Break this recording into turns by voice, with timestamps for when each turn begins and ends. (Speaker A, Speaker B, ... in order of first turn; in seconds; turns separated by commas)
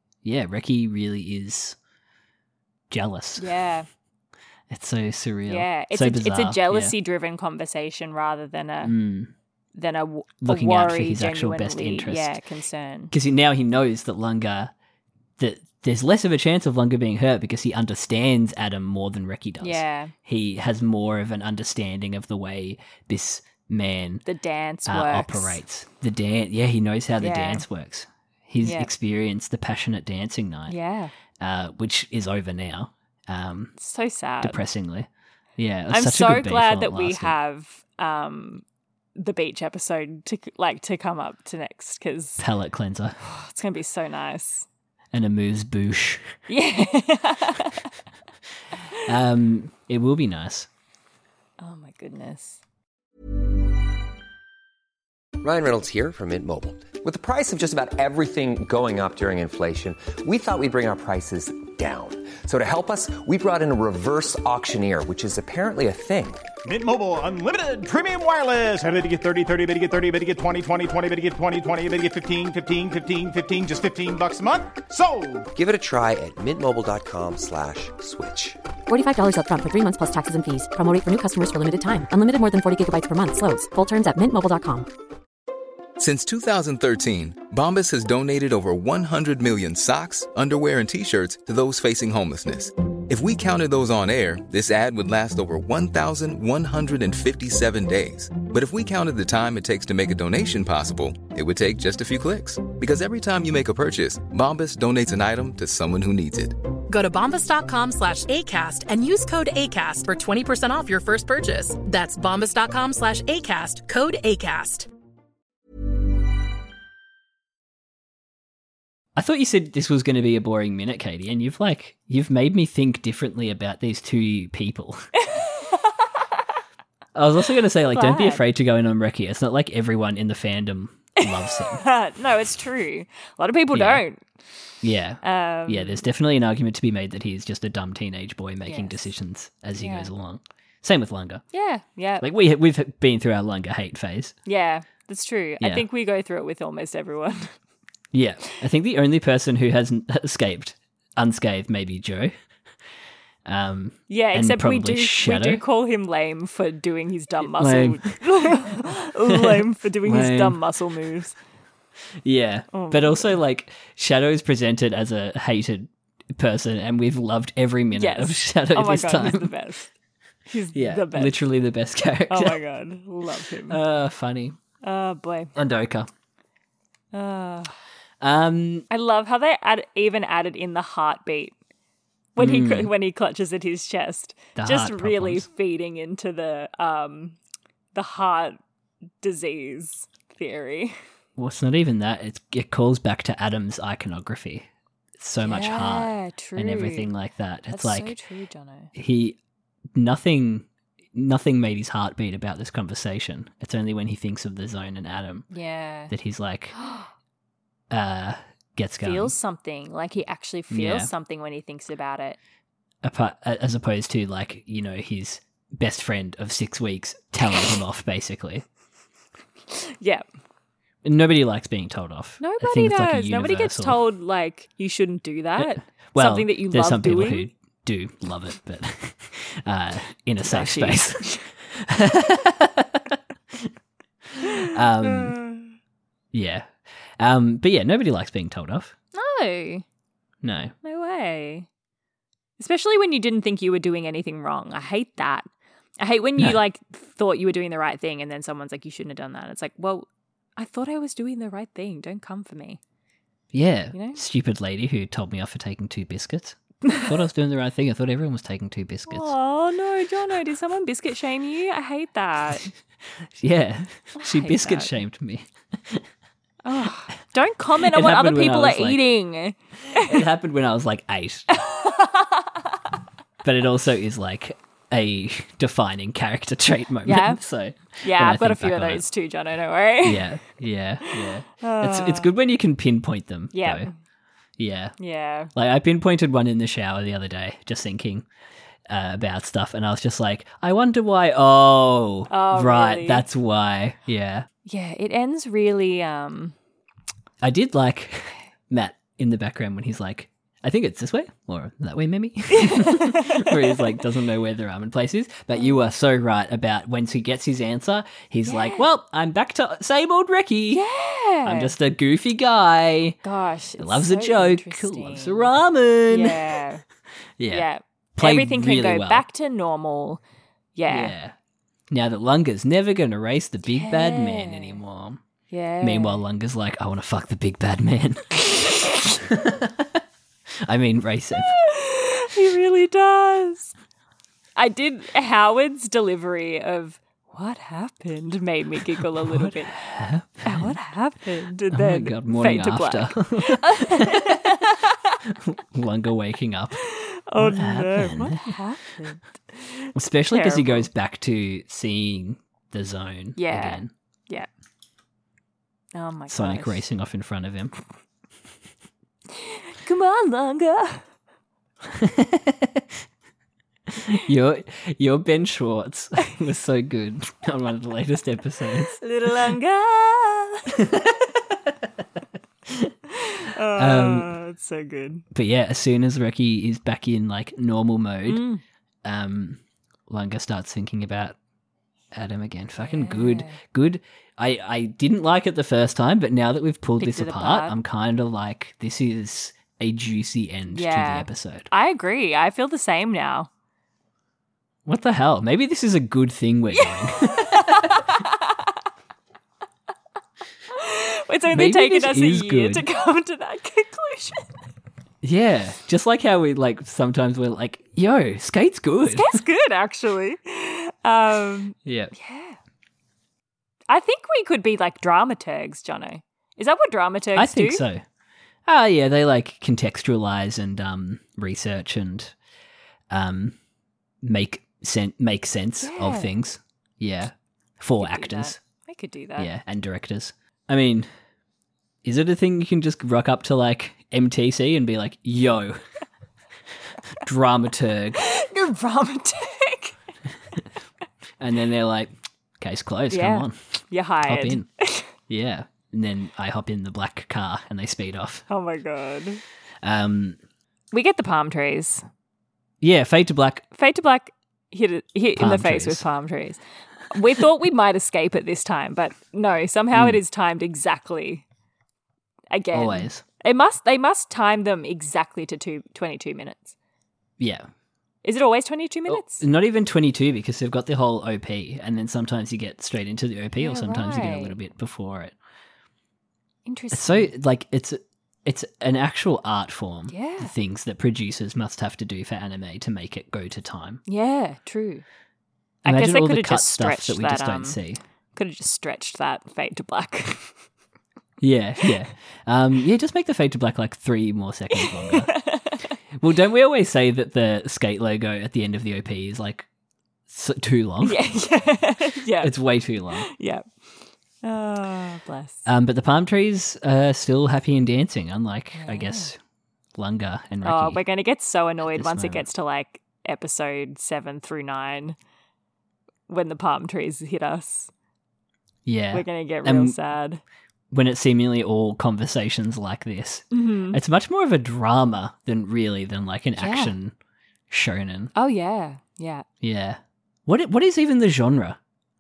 Speaker A: 0.2-1.8, Speaker A: 2.9-3.5, Speaker B: 3.4-3.9, Speaker A: 4.7-7.0, Speaker B: 5.5-8.9, Speaker A: 8.8-9.3, Speaker B: 9.8-13.1, Speaker A: 10.4-12.4, Speaker A: 13.1-14.7, Speaker A: 15.4-24.2, Speaker B: 19.6-20.1, Speaker B: 24.3-25.6, Speaker A: 24.9-30.8, Speaker B: 27.2-27.6, Speaker B: 28.6-28.9, Speaker B: 30.7-31.1, Speaker A: 31.4-33.8, Speaker B: 33.8-34.6, Speaker A: 34.4-37.4, Speaker B: 35.9-38.6, Speaker B: 39.2-42.4, Speaker A: 42.4-43.2, Speaker B: 43.2-44.7, Speaker A: 45.1-46.3, Speaker B: 46.5-47.9, Speaker A: 49.0-50.7, Speaker B: 51.6-52.6, Speaker C: 55.4-66.4, Speaker D: 66.7-75.5, Speaker C: 75.5-78.6, Speaker E: 78.9-84.9, Speaker F: 86.0-106.6, Speaker G: 106.9-114.9, Speaker A: 119.2-125.0, Speaker B: 125.3-125.9, Speaker A: 127.2-131.8, Speaker B: 127.9-128.4, Speaker B: 131.2-134.2, Speaker A: 133.7-134.0, Speaker A: 134.8-141.4, Speaker B: 135.2-136.1, Speaker B: 138.7-139.1, Speaker B: 139.8-140.1, Speaker B: 141.5-142.3, Speaker A: 142.2-144.3, Speaker B: 144.5-147.5, Speaker A: 145.6-145.9, Speaker A: 148.1-152.3, Speaker A: 153.5-155.6, Speaker B: 154.1-161.4, Speaker A: 157.4-158.2, Speaker A: 159.3-160.6, Speaker A: 162.2-169.5, Speaker B: 162.7-163.4, Speaker B: 167.9-169.9, Speaker B: 170.5-171.4, Speaker A: 170.7-172.6, Speaker B: 172.3-173.8, Speaker A: 173.7-174.6, Speaker B: 174.8-175.5, Speaker A: 175.6-176.1, Speaker B: 177.1-177.8, Speaker A: 178.2-178.9, Speaker B: 178.9-181.5, Speaker B: 182.4-187.4, Speaker A: 182.4-182.9, Speaker A: 184.6-185.5, Speaker B: 187.9-188.6, Speaker B: 189.2-191.0, Speaker A: 191.4-194.7, Speaker A: 195.2-198.2, Speaker B: 195.4-197.1, Speaker B: 197.7-198.9, Speaker A: 198.9-199.4, Speaker A: 199.9-205.5, Speaker B: 205.5-206.1, Speaker A: 206.1-206.8, Speaker B: 206.8-207.1, Speaker A: 207.9-209.3, Speaker B: 209.0-212.4, Speaker A: 210.7-211.1, Speaker A: 213.0-218.7, Speaker B: 219.7-220.2, Speaker A: 221.0-224.0, Speaker B: 222.4-227.5, Speaker A: 225.6-233.7, Speaker B: 230.4-231.5, Speaker A: 234.4-235.4, Speaker B: 234.4-235.7, Speaker A: 236.3-238.9, Speaker B: 239.1-239.8, Speaker A: 240.4-240.7, Speaker B: 240.8-241.7, Speaker B: 242.6-245.5, Speaker B: 246.0-252.8, Speaker A: 253.5-259.3, Speaker B: 253.9-254.2, Speaker B: 259.1-262.7, Speaker A: 263.2-266.1, Speaker B: 264.2-264.9, Speaker B: 266.6-270.2, Speaker A: 267.8-269.0, Speaker A: 269.9-271.5, Speaker B: 271.5-272.5, Speaker A: 273.4-279.1, Speaker B: 277.1-277.4, Speaker B: 278.0-280.4, Speaker A: 280.0-283.9, Speaker B: 281.1-282.3, Speaker B: 283.5-283.9, Speaker A: 284.6-285.0, Speaker B: 285.0-285.5, Speaker A: 285.5-288.3, Speaker A: 288.9-294.5, Speaker B: 292.3-293.3, Speaker B: 294.7-296.6, Speaker A: 297.4-310.8, Speaker B: 302.5-303.9, Speaker B: 308.5-308.9, Speaker B: 310.7-311.7, Speaker A: 311.4-313.2, Speaker B: 313.2-315.5, Speaker A: 313.8-316.6, Speaker B: 316.1-316.8, Speaker A: 317.4-319.2, Speaker B: 317.5-320.2, Speaker B: 320.8-321.1, Speaker A: 320.9-321.4, Speaker A: 321.9-325.2, Speaker B: 323.7-324.8, Speaker B: 325.5-326.2, Speaker A: 325.8-330.0, Speaker A: 330.6-331.6, Speaker B: 331.4-333.7, Speaker B: 334.6-339.7, Speaker A: 339.2-340.8, Speaker B: 340.4-345.2, Speaker A: 341.7-344.6, Speaker A: 345.2-346.8, Speaker B: 346.8-350.9, Speaker A: 347.4-348.6, Speaker A: 349.9-353.9, Speaker B: 353.4-354.5, Speaker B: 355.9-356.8, Speaker A: 356.3-357.7, Speaker B: 359.3-361.1, Speaker A: 361.9-362.9, Speaker A: 363.9-369.0, Speaker B: 369.0-370.7, Speaker A: 370.7-371.9, Speaker A: 372.7-372.9, Speaker B: 373.2-375.2, Speaker A: 373.8-374.4, Speaker A: 375.3-378.4, Speaker B: 378.3-378.6, Speaker A: 379.0-381.4, Speaker A: 382.1-391.7, Speaker B: 382.8-383.6, Speaker B: 387.0-387.8, Speaker B: 390.7-393.5, Speaker A: 394.9-398.2, Speaker B: 396.7-398.6, Speaker B: 400.7-404.5, Speaker A: 401.5-402.8, Speaker A: 405.2-409.4, Speaker B: 409.1-412.6, Speaker A: 411.9-412.1, Speaker B: 413.9-417.8, Speaker A: 417.4-418.0, Speaker A: 418.7-422.3, Speaker A: 423.1-423.6, Speaker A: 424.2-428.6, Speaker B: 425.8-426.3, Speaker B: 428.0-429.5, Speaker A: 429.4-431.1, Speaker A: 432.0-435.8, Speaker A: 437.2-438.3, Speaker B: 438.2-440.0, Speaker A: 441.4-444.7, Speaker B: 443.1-445.1, Speaker A: 445.2-448.4, Speaker B: 448.5-449.4, Speaker A: 449.8-450.4, Speaker B: 450.9-452.1, Speaker A: 452.8-453.7, Speaker B: 453.7-461.4, Speaker A: 455.4-456.0, Speaker A: 459.9-460.2, Speaker B: 462.5-466.8, Speaker A: 462.7-463.2, Speaker A: 467.4-467.7, Speaker B: 468.2-469.4, Speaker A: 469.1-475.4, Speaker B: 473.6-474.6, Speaker B: 476.7-477.3, Speaker A: 476.9-484.0, Speaker B: 480.1-480.5, Speaker B: 484.1-485.1, Speaker B: 485.9-487.8, Speaker A: 485.9-488.0, Speaker B: 488.3-490.5, Speaker A: 491.4-495.4, Speaker B: 494.8-495.9, Speaker A: 496.2-499.7, Speaker A: 500.3-501.2, Speaker B: 501.0-502.6, Speaker A: 502.4-503.3, Speaker B: 503.2-503.7, Speaker B: 504.4-505.6, Speaker A: 505.6-509.4, Speaker B: 508.8-509.3, Speaker A: 510.0-511.0, Speaker B: 510.6-515.2, Speaker A: 511.8-512.5, Speaker B: 516.3-517.9, Speaker A: 518.9-520.0, Speaker B: 519.1-520.4, Speaker A: 520.9-527.1, Speaker B: 523.5-524.0, Speaker B: 526.6-527.0, Speaker A: 527.7-528.3, Speaker B: 528.4-529.5, Speaker A: 529.6-531.8